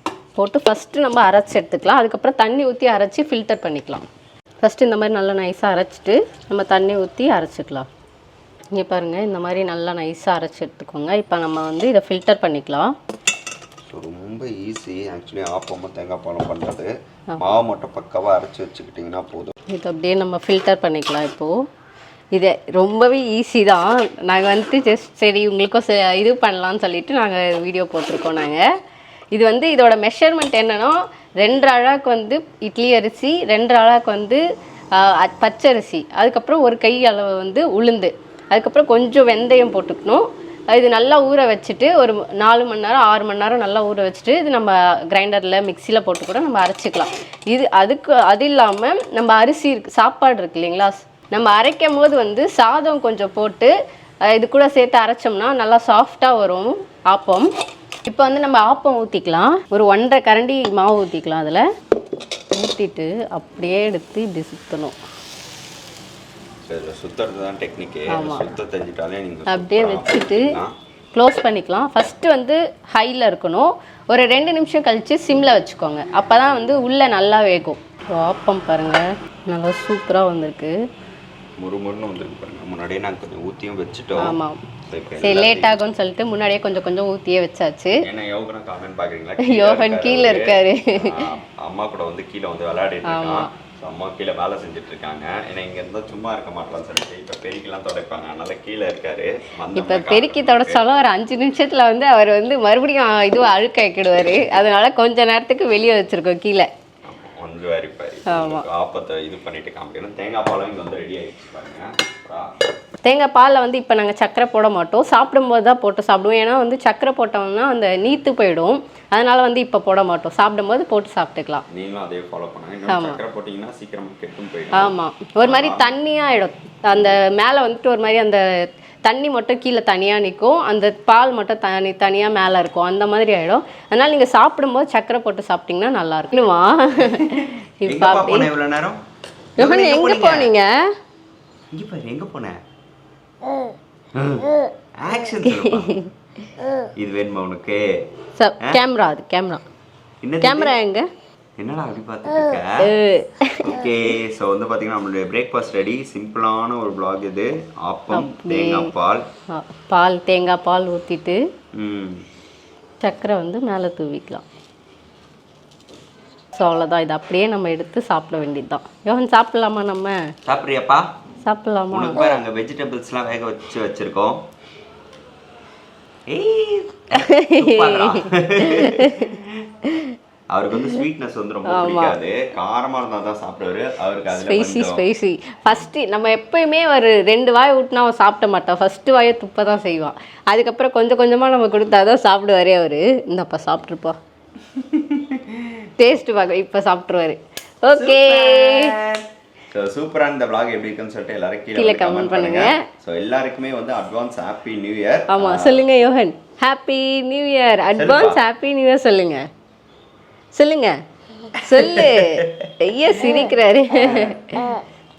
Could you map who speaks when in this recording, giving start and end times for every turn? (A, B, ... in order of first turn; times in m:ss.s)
0:00.4-0:04.1 A
0:04.6-0:07.9 A
0:08.7-0:12.9 A
0:13.9-0:19.5 B
0:19.7-0:21.5 A
0:22.3-0:28.6 A
0:29.3-0:34.4 A
0:34.9-0:53.7 A
0:54.2-0:57.5 A
0:58.0-1:01.6 A
1:02.5-1:05.0 A
1:06.6-1:10.7 B
1:08.1-1:08.5 A
1:09.5-1:10.5 A
1:11.1-1:20.8 A
1:21.6-1:25.8 B
1:24.2-1:24.6 A
1:25.2-1:28.0 A
1:28.0-1:40.8 B
1:29.4-1:31.3 A
1:33.0-1:33.5 A
1:39.7-1:46.7 A
1:47.0-1:52.6 B
1:48.3-1:48.6 A
1:53.0-2:01.6 A
2:01.7-2:05.9 B
2:02.9-2:03.2 A
2:04.7-2:08.4 A
2:09.0-2:18.5 A
2:17.0-2:19.0 B
2:19.6-2:20.7 A
2:19.6-2:20.5 B
2:21.7-2:22.6 B
2:24.1-2:26.0 B
2:25.4-2:26.1 A
2:27.0-2:28.0 B
2:28.4-2:29.6 A
2:30.2-2:30.8 B
2:30.4-2:31.1 A
2:31.6-2:32.9 B
2:32.8-2:33.8 A
2:33.6-2:39.3 B
2:38.1-2:38.9 A
2:39.5-2:41.4 A
2:41.7-2:42.2 B
2:43.0-2:44.4 A
2:46.5-2:50.2 A
2:50.4-2:51.1 B
2:51.4-2:52.3 A
2:51.9-2:54.4 B
2:56.3-2:59.8 B
2:57.1-2:59.4 A
3:00.5-3:05.0 B
3:01.7-3:02.2 A
3:04.3-3:14.2 A
3:14.7-3:15.9 B
3:16.0-3:18.9 A
3:17.9-3:25.8 B
3:21.7-3:22.8 A
3:25.3-3:29.5 A
3:27.9-3:28.4 B
3:30.5-3:31.0 A
3:31.5-3:34.8 A
3:31.6-3:32.7 B
3:34.0-3:34.3 B